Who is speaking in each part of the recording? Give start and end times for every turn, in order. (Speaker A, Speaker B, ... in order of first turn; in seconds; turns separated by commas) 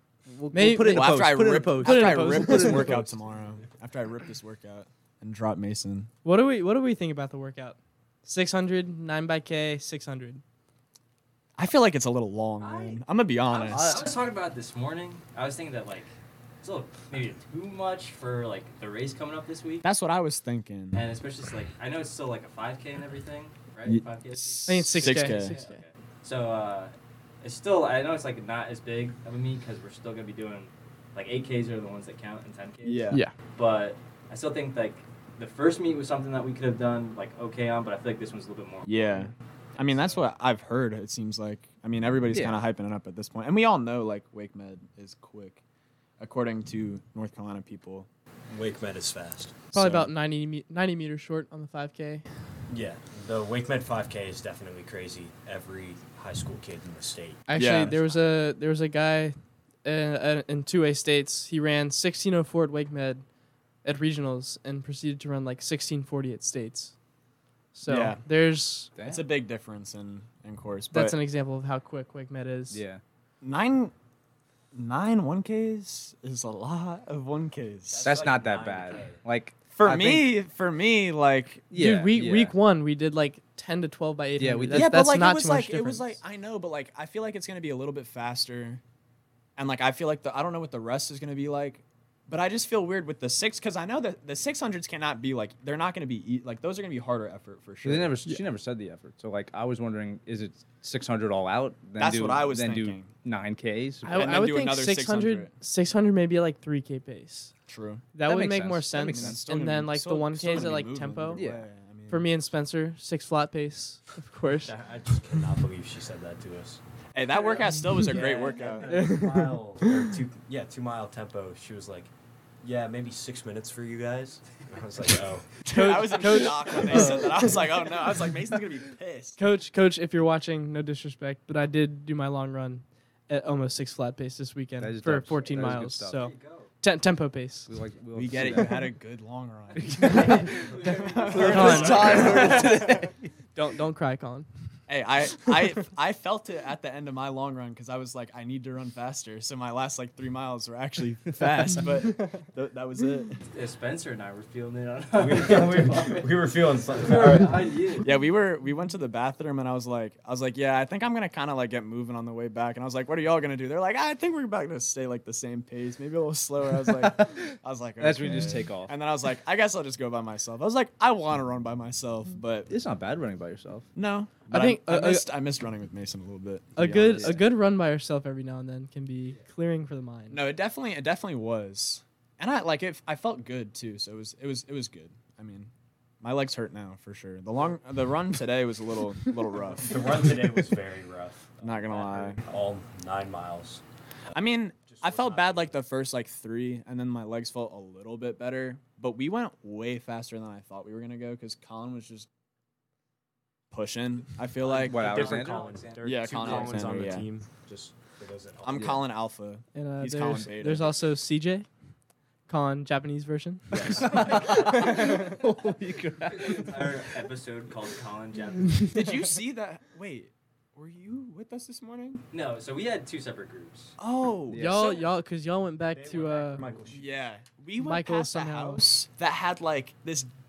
Speaker A: 0.3-3.1, Speaker B: 0.5-3.1, Speaker C: 0.7-6.1, Speaker B: 6.2-10.4, Speaker C: 11.6-14.1, Speaker D: 12.6-19.9, Speaker A: 13.7-14.1, Speaker C: 19.8-21.0, Speaker D: 20.9-40.3, Speaker C: 23.9-25.6, Speaker B: 24.7-25.8, Speaker C: 32.9-33.2, Speaker C: 38.9-45.6, Speaker A: 42.3-42.6, Speaker C: 46.2-48.1, Speaker E: 48.5-49.7, Speaker B: 49.7-52.2, Speaker C: 49.7-50.1, Speaker E: 52.7-57.5, Speaker B: 57.5-63.2, Speaker C: 57.5-58.0, Speaker B: 63.8-67.0, Speaker B: 67.7-68.9, Speaker C: 67.9-68.2, Speaker A: 69.0-69.3, Speaker C: 69.0-71.2, Speaker B: 70.9-72.8, Speaker A: 72.7-73.0, Speaker C: 73.4-73.9, Speaker C: 74.7-78.1, Speaker E: 77.9-79.2, Speaker A: 78.0-80.4, Speaker C: 79.7-81.7, Speaker A: 81.7-82.6, Speaker B: 81.7-86.1, Speaker A: 84.4-85.0, Speaker C: 84.7-88.8, Speaker C: 89.6-98.2, Speaker A: 97.8-104.4, Speaker C: 102.0-103.1, Speaker B: 104.0-107.5, Speaker C: 104.2-105.5, Speaker C: 107.7-108.1, Speaker B: 108.1-111.4, Speaker A: 108.2-109.4, Speaker C: 108.9-112.3, Speaker A: 111.3-111.7, Speaker B: 112.1-114.7, Speaker E: 114.5-116.8, Speaker C: 117.1-119.0, Speaker E: 117.6-122.1, Speaker B: 118.8-120.1, Speaker E: 122.6-125.6, Speaker B: 125.7-127.5, Speaker C: 125.7-129.4, Speaker A: 126.9-127.5, Speaker B: 129.4-137.7, Speaker A: 134.8-136.2, Speaker D: 135.4-136.7, Speaker A: 137.7-139.0, Speaker C: 138.1-142.7, Speaker A: 139.8-143.3, Speaker D: 140.1-142.6, Speaker B: 141.4-144.5, Speaker C: 144.9-153.4, Speaker D: 153.5-156.3, Speaker E: 155.2-157.9, Speaker D: 157.0-158.1, Speaker C: 158.0-172.7, Speaker A: 166.8-168.9, Speaker A: 172.7-173.9, Speaker C: 173.9-177.4, Speaker B: 174.5-175.3, Speaker B: 176.8-180.4, Speaker A: 176.8-177.4, Speaker C: 180.3-190.4, Speaker E: 189.8-195.8, Speaker C: 191.6-192.4, Speaker C: 194.3-202.3, Speaker C: 203.7-205.3, Speaker D: 204.7-207.1, Speaker E: 204.7-209.1, Speaker A: 204.8-205.7, Speaker C: 206.0-207.3, Speaker C: 208.6-211.0, Speaker B: 209.7-211.7, Speaker B: 212.5-215.4, Speaker C: 213.7-214.5, Speaker A: 213.9-216.9, Speaker D: 216.3-219.0, Speaker C: 218.9-222.2, Speaker D: 222.3-224.0, Speaker C: 224.0-225.0, Speaker A: 224.5-225.0, Speaker B: 224.5-226.6, Speaker E: 225.9-227.2, Speaker C: 226.9-230.3, Speaker B: 227.8-228.9